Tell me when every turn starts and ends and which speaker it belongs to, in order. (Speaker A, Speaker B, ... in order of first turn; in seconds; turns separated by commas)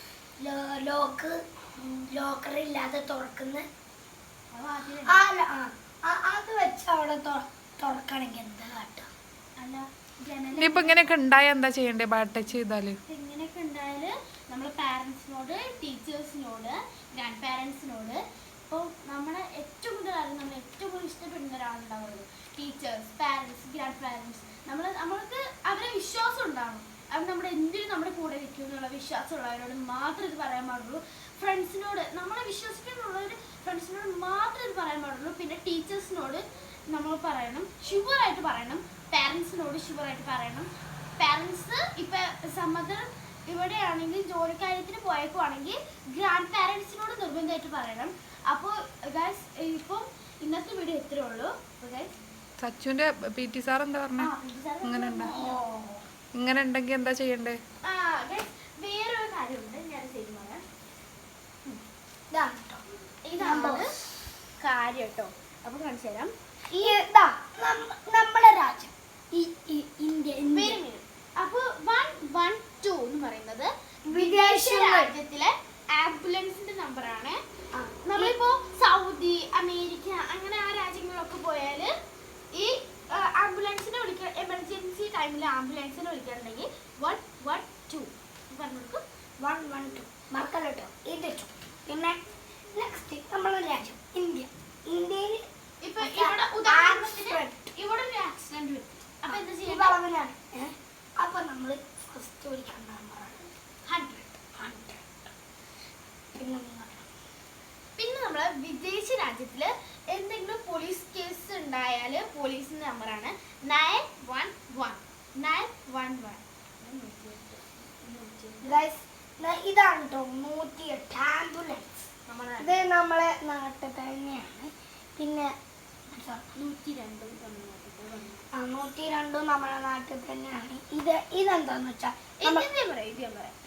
Speaker A: 0.4-3.6, Speaker B: 4.5-5.2, Speaker A: 5.0-9.1, Speaker B: 9.6-11.0, Speaker C: 10.6-13.0, Speaker B: 13.1-40.7, Speaker B: 41.2-52.1, Speaker C: 52.6-54.3, Speaker B: 54.2-55.6, Speaker C: 54.8-55.4, Speaker A: 55.3-56.0, Speaker C: 56.3-57.6, Speaker B: 57.8-60.6, Speaker A: 61.7-62.8, Speaker B: 63.2-63.9, Speaker A: 63.4-63.9, Speaker B: 64.6-66.9, Speaker A: 66.7-70.8, Speaker B: 70.5-77.4, Speaker A: 74.1-75.1, Speaker A: 77.7-78.4, Speaker B: 78.0-81.9, Speaker B: 82.5-89.0, Speaker A: 89.4-92.2, Speaker A: 92.7-95.4, Speaker B: 95.8-100.0, Speaker A: 96.0-97.7, Speaker A: 99.2-103.5, Speaker B: 103.8-104.4, Speaker A: 104.5-105.3, Speaker A: 106.3-107.1, Speaker B: 108.0-118.7, Speaker A: 118.6-122.1, Speaker B: 122.3-122.8, Speaker A: 122.6-125.5, Speaker A: 126.1-126.5, Speaker B: 126.5-128.4, Speaker A: 128.5-132.7, Speaker B: 132.4-133.5